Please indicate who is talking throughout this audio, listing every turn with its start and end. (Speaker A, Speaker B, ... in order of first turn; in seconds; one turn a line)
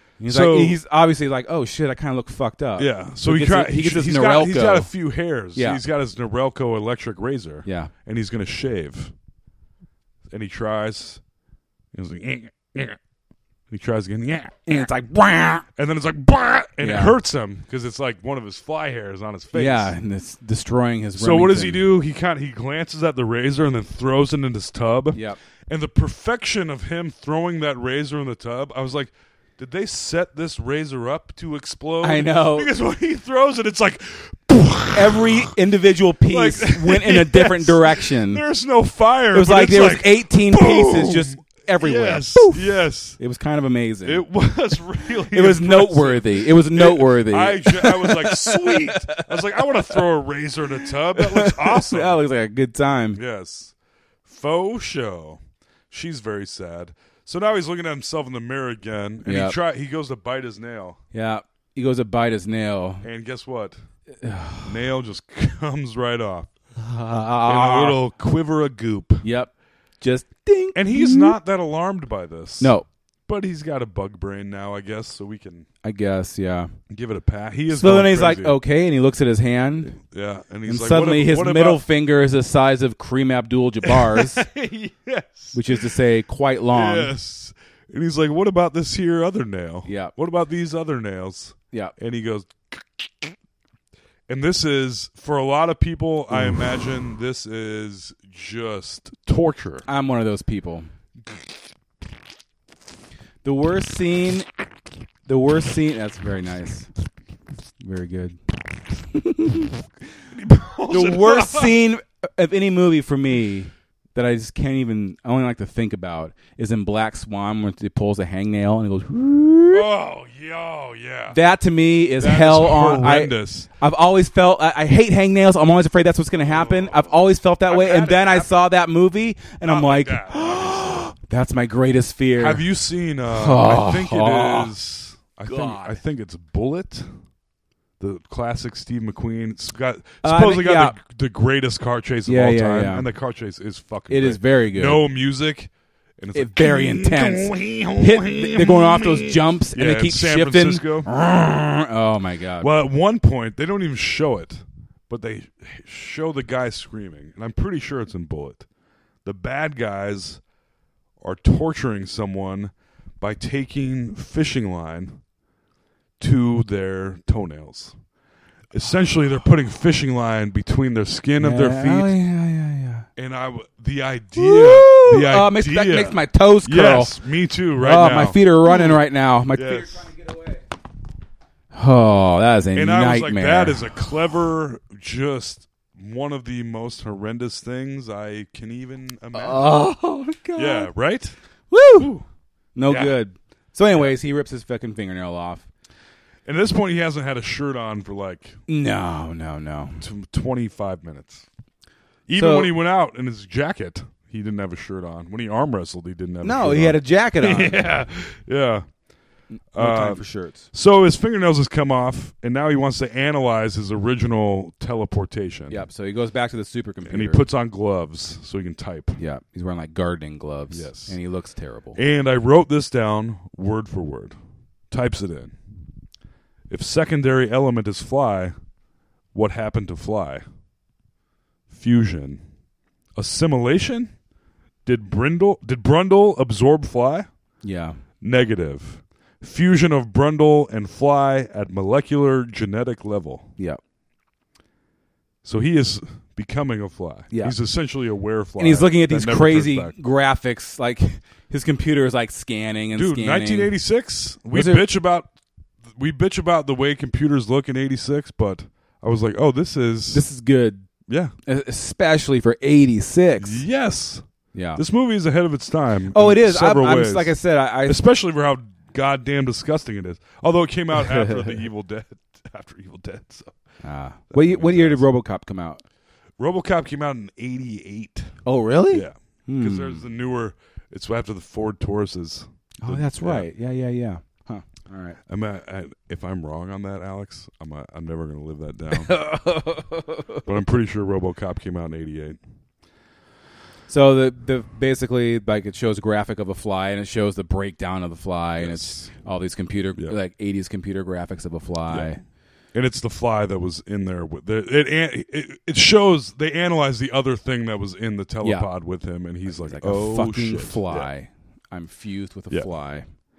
Speaker A: 0.2-4.9
Speaker B: 0.3-0.8
Speaker B: 2.8-9.1
Speaker A: 5.5-5.8
Speaker A: 7.7-7.9
Speaker B: 10.3-11.2
Speaker B: 11.9-13.0
Speaker B: 13.7-14.9
Speaker A: 14.7-15.7
Speaker B: 15.8-19.9
Speaker A: 16.8-17.2
Speaker A: 19.5-21.9
Speaker B: 21.2-35.5
Speaker A: 25.1-25.4
Speaker A: 32.0-32.7
Speaker A: 34.9-38.4
Speaker B: 36.3-43.2
Speaker A: 39.3-44.2
Speaker B: 44.0-52.2
Speaker A: 45.3-50.0
Speaker A: 51.1-53.2
Speaker B: 53.1-53.7
Speaker B: 54.2-61.0
Speaker A: 59.2-59.6
Speaker A: 61.1-63.1
Speaker B: 63.0-63.8
Speaker A: 64.2-64.7
Speaker B: 64.7-66.5
Speaker A: 66.8-68.0
Speaker B: 67.5-69.2
Speaker A: 69.2-71.4
Speaker B: 70.8-72.8
Speaker A: 72.6-72.9
Speaker B: 73.3-75.7
Speaker A: 75.8-76.7
Speaker B: 76.9-78.6
Speaker A: 77.7-80.0
Speaker B: 79.9-81.8
Speaker A: 80.7-84.4
Speaker B: 83.8-85.9
Speaker A: 85.5-87.1
Speaker B: 86.7-93.2
Speaker A: 89.9-90.1
Speaker B: 94.3-99.8
Speaker A: 96.3-96.6
Speaker A: 99.9-100.9
Speaker A: 103.4-104.5
Speaker A: 105.3-106.9
Speaker A: 107.8-108.4
Speaker A: 109.1-109.8
Speaker B: 110.3-111.8
Speaker A: 110.9-119.9
Speaker B: 119.7-121.4
Speaker A: 121.3-132.6
Speaker B: 122.2-123.7
Speaker B: 126.5-127.2
Speaker B: 127.7-128.5
Speaker B: 129.7-131.1
Speaker B: 132.4-137.1
Speaker A: 133.3-134.7
Speaker A: 135.4-136.0
Speaker B: 138.0-151.1
Speaker A: 140.2-141.0
Speaker A: 142.3-143.1
Speaker A: 144.1-145.1
Speaker A: 146.3-152.7
Speaker B: 152.6-158.7
Speaker B: 159.2-160.4
Speaker B: 161.2-165.2
Speaker B: 166.2-168.0
Speaker B: 168.7-172.1
Speaker A: 171.4-173.1
Speaker B: 173.2-180.1
Speaker A: 174.4-177.1
Speaker A: 177.8-180.6
Speaker A: 181.7-183.9
Speaker B: 182.7-189.8
Speaker A: 189.3-190.9
Speaker B: 190.6-191.4
Speaker A: 191.7-192.1
Speaker B: 191.9-192.3
Speaker A: 192.8-195.7
Speaker B: 192.9-193.2
Speaker B: 193.9-194.2
Speaker B: 196.4-198.6
Speaker A: 198.7-200.0
Speaker B: 200.0-201.5
Speaker B: 202.3-208.9
Speaker A: 202.3-202.7
Speaker A: 206.4-207.9
Speaker A: 209.5-210.7
Speaker B: 209.7-215.8
Speaker A: 215.7-217.5
Speaker B: 217.1-219.2
Speaker A: 219.2-222.0
Speaker B: 220.7-221.2
Speaker B: 221.9-224.4
Speaker B: 224.9-225.6
Speaker B: 226.7-228.6
Speaker B: 229.3-230.4
Speaker B: 231.7-232.4
Speaker B: 233.2-234.1
Speaker B: 234.8-237.3
Speaker A: 237.6-238.0
Speaker B: 238.2-243.5
Speaker B: 245.4-250.0
Speaker A: 247.3-247.6
Speaker A: 248.6-253.8
Speaker B: 252.9-255.3
Speaker A: 254.5-254.9
Speaker B: 256.0-260.3
Speaker A: 260.1-260.9
Speaker B: 261.1-261.3
Speaker A: 261.5-263.6
Speaker B: 263.4-264.2
Speaker A: 264.5-264.8
Speaker B: 264.8-273.6
Speaker A: 266.1-268.0
Speaker A: 271.0-271.5
Speaker A: 273.8-275.8
Speaker B: 274.3-275.1
Speaker B: 276.4-278.3
Speaker A: 278.4-280.0
Speaker B: 278.9-283.5
Speaker A: 282.8-285.2
Speaker B: 285.3-289.2
Speaker A: 288.9-290.4
Speaker B: 290.4-292.4
Speaker A: 293.9-302.2
Speaker B: 298.6-299.1
Speaker B: 301.9-302.1
Speaker B: 302.7-311.1
Speaker A: 308.4-308.7
Speaker A: 309.5-313.1